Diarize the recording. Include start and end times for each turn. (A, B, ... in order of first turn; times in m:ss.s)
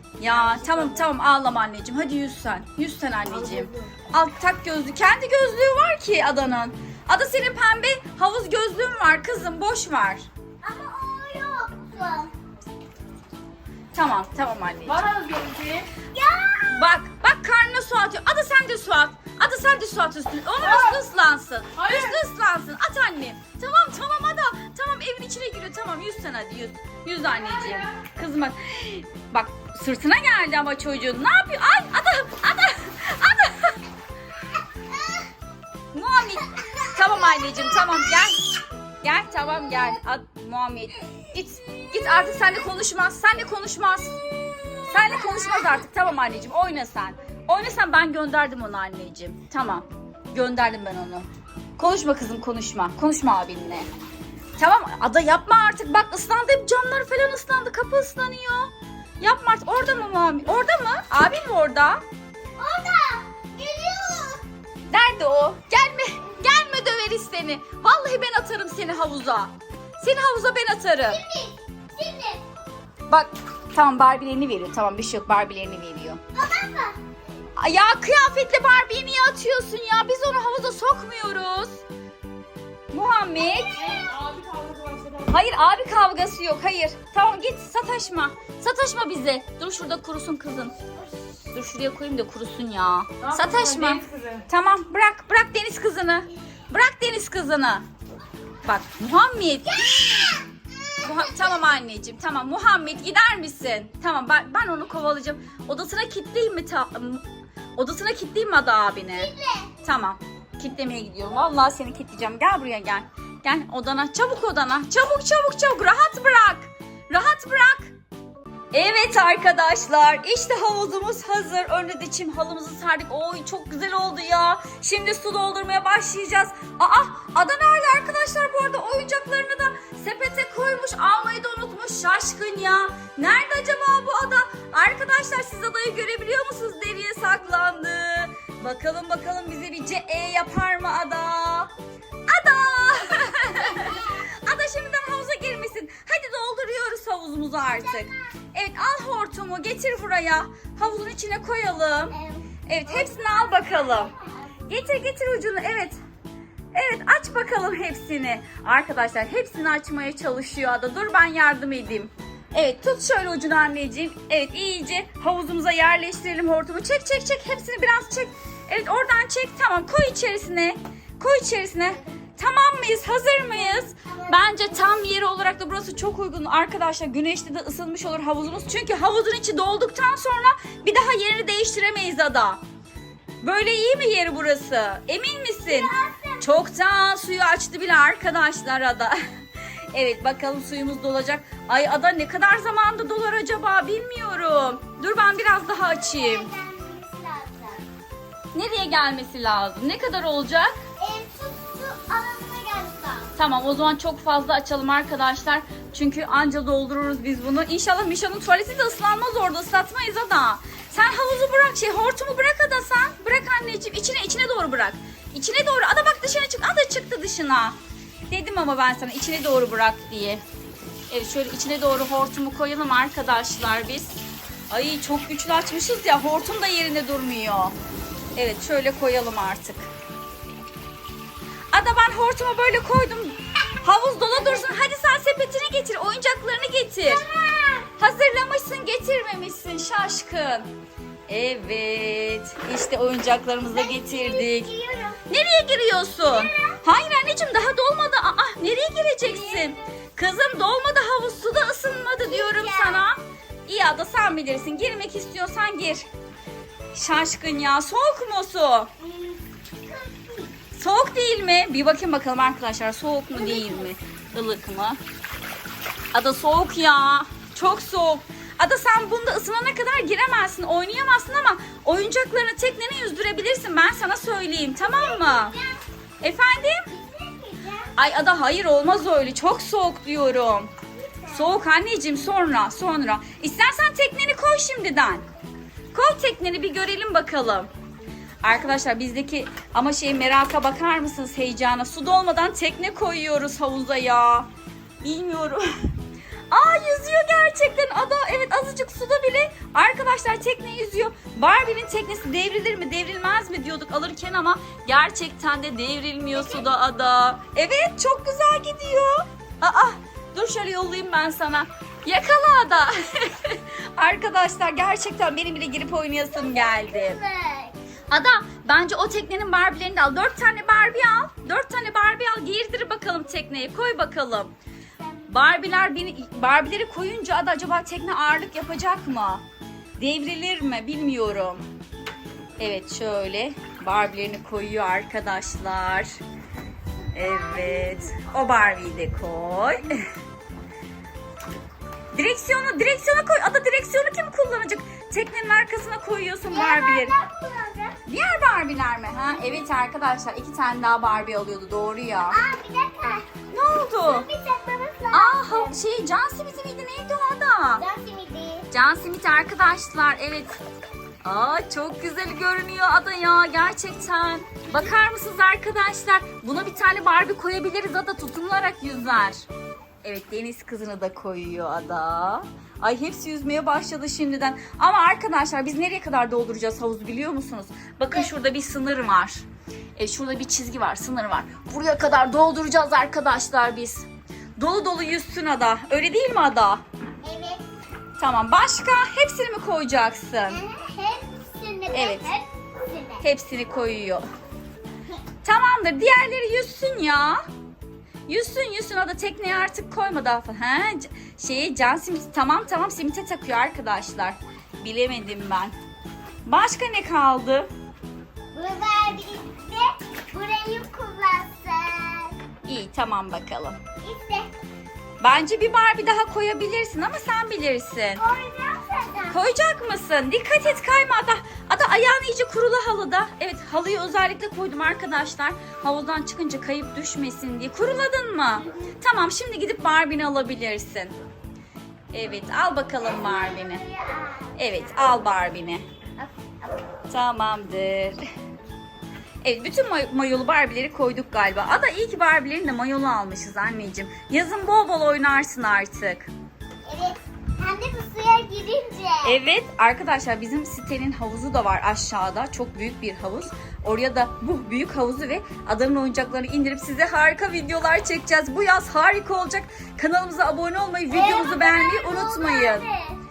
0:00.2-0:10.3 A
0:00.3-0:01.1 B
0:03.4-0:03.9 B
0:10.6-0:12.3 C
0:13.9-0:15.1 A
0:14.8-0:15.9 B
0:16.1-0:16.9 C
0:16.7-0:33.8 A
0:20.6-0:21.0 B
0:21.8-0:22.2 B
0:27.5-0:27.8 B
0:35.9-0:44.2 A
0:44.8-0:51.3 A
0:51.8-0:53.9 A
0:54.6-1:02.0 A
1:02.6-1:04.4 C
1:04.9-1:11.2 A
1:11.1-1:12.4 C
1:13.1-1:16.2 A
1:16.3-1:17.0 C
1:17.6-1:21.8 A
1:22.9-1:23.8 A
1:23.4-1:24.2 C
1:23.7-1:25.4 B
1:25.3-1:30.8 A
1:31.4-1:37.8 A
1:33.2-1:34.4 B
1:38.6-1:40.4 A
1:39.9-1:40.5 C
1:41.0-1:47.2 A
1:47.8-1:49.3 A
1:49.1-1:49.7 C
1:49.8-1:57.9 A
1:58.7-2:21.7 A
2:22.3-2:32.2 A
2:23.3-2:24.2 C
2:27.8-2:28.2 C
2:32.1-2:34.5 C
2:32.7-2:34.1 A
2:34.7-2:36.0 A
2:36.7-3:02.6 A
2:53.8-2:55.1 C
3:03.4-3:09.2 A
3:05.7-3:06.5 C
3:09.9-3:16.5 A
3:15.9-3:17.9 C
3:18.5-3:20.7 A
3:21.0-3:23.3 C
3:23.4-3:37.8 A
3:38.3-3:40.4 A
3:41.1-3:47.8 A
3:48.4-3:49.9 A
3:51.7-3:57.2 A
3:54.3-3:54.7 C
3:57.0-3:57.9 C
3:58.0-4:00.7 A
4:01.3-4:04.7 A
4:03.7-4:05.2 C
4:05.3-4:16.1 A
4:06.3-4:06.8 C
4:09.3-4:09.7 C
4:12.2-4:13.0 C
4:16.9-4:18.9 A
4:19.0-4:20.6 C
4:20.7-4:25.0 A
4:23.3-4:24.0 C
4:26.1-4:35.6 A
4:34.8-4:35.8 C
4:36.2-4:36.9 A
4:36.8-4:38.0 C
4:38.0-4:40.7 A
4:41.0-4:41.5 C
4:41.3-4:45.2 A
4:45.9-4:47.7 A
4:48.4-4:54.5 A
4:55.0-4:55.7 A
4:56.5-5:17.2 A
5:06.4-5:06.6 C
5:16.3-5:17.8 C
5:18.1-5:24.5 A
5:25.0-5:25.3 C
5:25.3-5:29.4 A
5:30.0-5:31.6 A
5:32.6-5:36.2 A
5:37.0-5:38.4 C
5:37.1-5:40.1 A
5:42.1-5:47.1 A
5:46.5-5:48.0 C
5:48.1-5:52.4 A
5:52.3-5:53.3 C
5:53.5-5:54.3 A
5:54.0-5:55.8 C
5:55.1-5:57.8 A
5:57.8-5:58.7 C
5:58.7-6:00.6 A
6:01.2-6:09.4 A
6:10.0-6:19.4 A
6:20.0-6:24.1 A
6:24.6-6:26.8 A
6:27.2-6:27.6 C
6:28.2-6:30.6 A
6:30.5-6:33.3 C
6:31.9-6:32.3 A
6:33.2-6:34.2 A
6:35.4-6:37.4 A
6:38.3-6:45.7 A
6:46.5-6:47.7 A
6:48.5-6:52.4 C
6:52.7-6:53.8 A
6:54.0-6:54.5 C
6:55.2-6:58.2 A
6:58.2-6:59.4 C
6:59.3-7:11.1 A
7:08.6-7:08.9 C
7:12.1-7:13.8 A
7:13.0-7:14.6 C
7:14.6-7:15.8 A
7:17.1-7:18.3 A
7:19.4-7:26.3 A
7:26.9-7:29.4 C
7:29.2-7:42.9 A
7:41.1-7:43.2 C